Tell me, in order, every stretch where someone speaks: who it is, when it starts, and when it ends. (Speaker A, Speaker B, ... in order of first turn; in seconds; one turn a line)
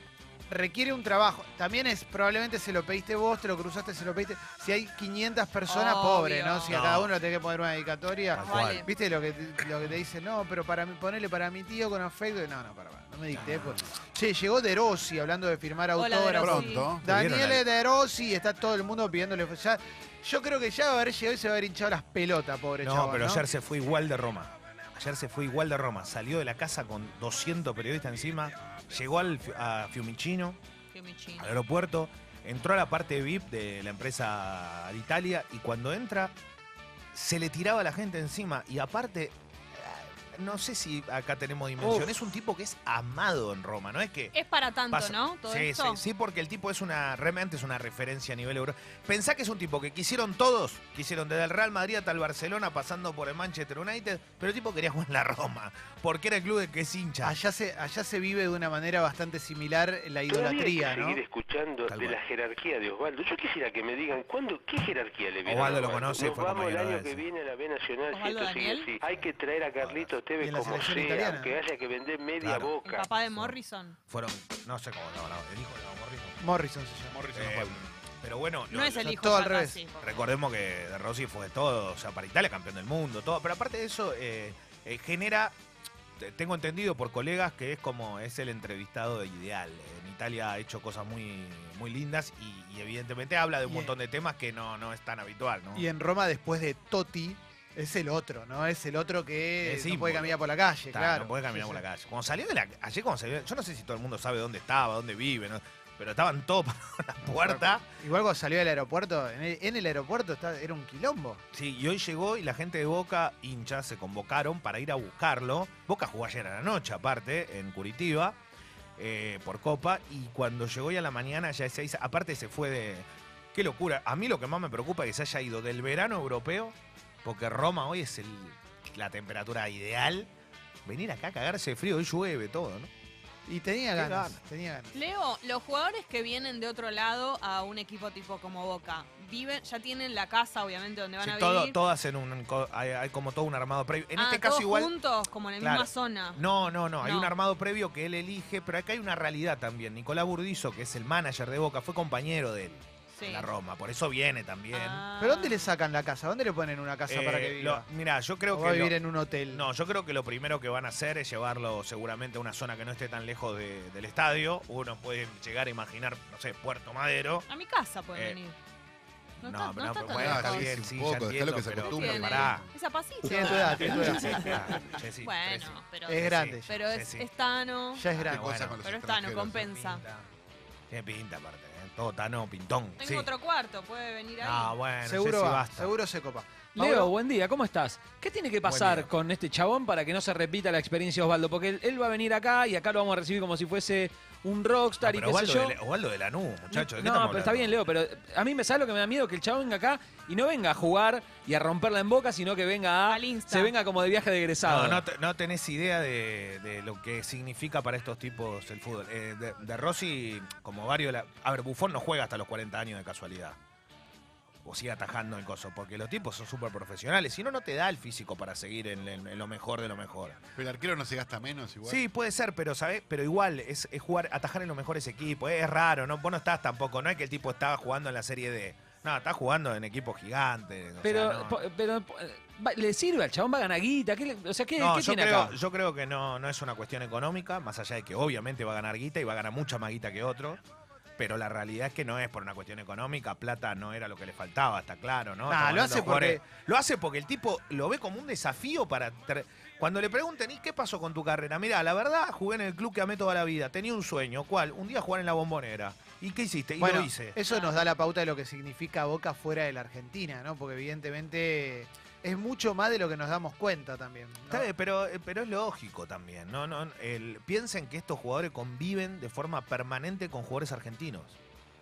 Speaker A: 0.5-23.4
Speaker B: 5.6-6.8
Speaker C: 6.7-7.1
Speaker C: 8.3-8.8
Speaker B: 8.4-8.9
Speaker C: 13.3-13.8
Speaker B: 15.9-17.0
Speaker D: 16.4-17.1
Speaker C: 17.0-17.6
Speaker C: 22.8-30.6
Speaker B: 30.9-31.5
Speaker C: 31.4-36.4
Speaker C: 37.1-44.4
Speaker B: 44.3-46.0
Speaker C: 44.9-57.4
Speaker A: 57.2-61.2
Speaker E: 60.3-73.2
Speaker C: 61.9-62.2
Speaker C: 65.4-67.3
Speaker B: 68.1-68.9
Speaker C: 69.8-70.1
Speaker A: 70.4-71.6
Speaker C: 72.4-72.8
Speaker B: 72.8-74.0
Speaker C: 73.3-73.6
Speaker C: 74.1-76.4
Speaker A: 76.4-77.2
Speaker D: 77.1-77.8
Speaker C: 77.3-79.1
Speaker B: 78.7-80.3
Speaker A: 79.0-79.8
Speaker C: 79.9-85.5
Speaker C: 86.2-95.8
Speaker A: 93.6-93.9
Speaker A: 95.7-101.8
Speaker C: 99.6-100.4
Speaker C: 100.9-107.9
Speaker A: 107.4-111.4
Speaker C: 111.5-118.4
Speaker C: 119.0-130.3
Speaker C: 130.8-132.9
Speaker A: 133.5-134.9
Speaker C: 133.9-134.4
Speaker B: 134.9-141.8
Speaker C: 141.2-144.9
Speaker B: 144.2-146.4
Speaker C: 145.6-155.1
Speaker B: 147.0-147.3
Speaker B: 153.1-153.5
Speaker B: 154.7-155.8
Speaker A: 155.2-157.9
Speaker C: 157.1-158.9
Speaker A: 158.5-159.7
Speaker C: 159.5-167.5
Speaker B: 167.5-168.6
Speaker C: 168.1-168.4
Speaker B: 169.4-170.8
Speaker C: 169.4-172.6
Speaker D: 170.1-172.7
Speaker B: 171.9-178.1
Speaker A: 173.2-174.2
Speaker C: 173.4-177.3
Speaker A: 176.0-176.8
Speaker A: 177.9-178.5
Speaker C: 178.1-178.8
Speaker D: 178.3-179.8
Speaker B: 178.8-180.0
Speaker C: 179.7-180.3
Speaker C: 180.9-183.3
Speaker B: 183.0-184.8
Speaker C: 184.4-185.9
Speaker A: 185.0-187.1
Speaker F: 186.8-195.8
Speaker C: 188.6-189.1
Speaker C: 195.0-197.8
Speaker F: 196.7-205.0
Speaker B: 203.1-203.8
Speaker C: 204.6-213.6
Speaker C: 214.6-220.4
Speaker D: 220.5-222.0
Speaker C: 221.8-231.6
Speaker F: 231.0-235.6
Speaker C: 234.8-240.6
Speaker C: 241.2-257.4
Speaker A: 245.5-246.4
Speaker A: 256.8-264.7
Speaker B: 257.5-257.9
Speaker C: 264.5-271.4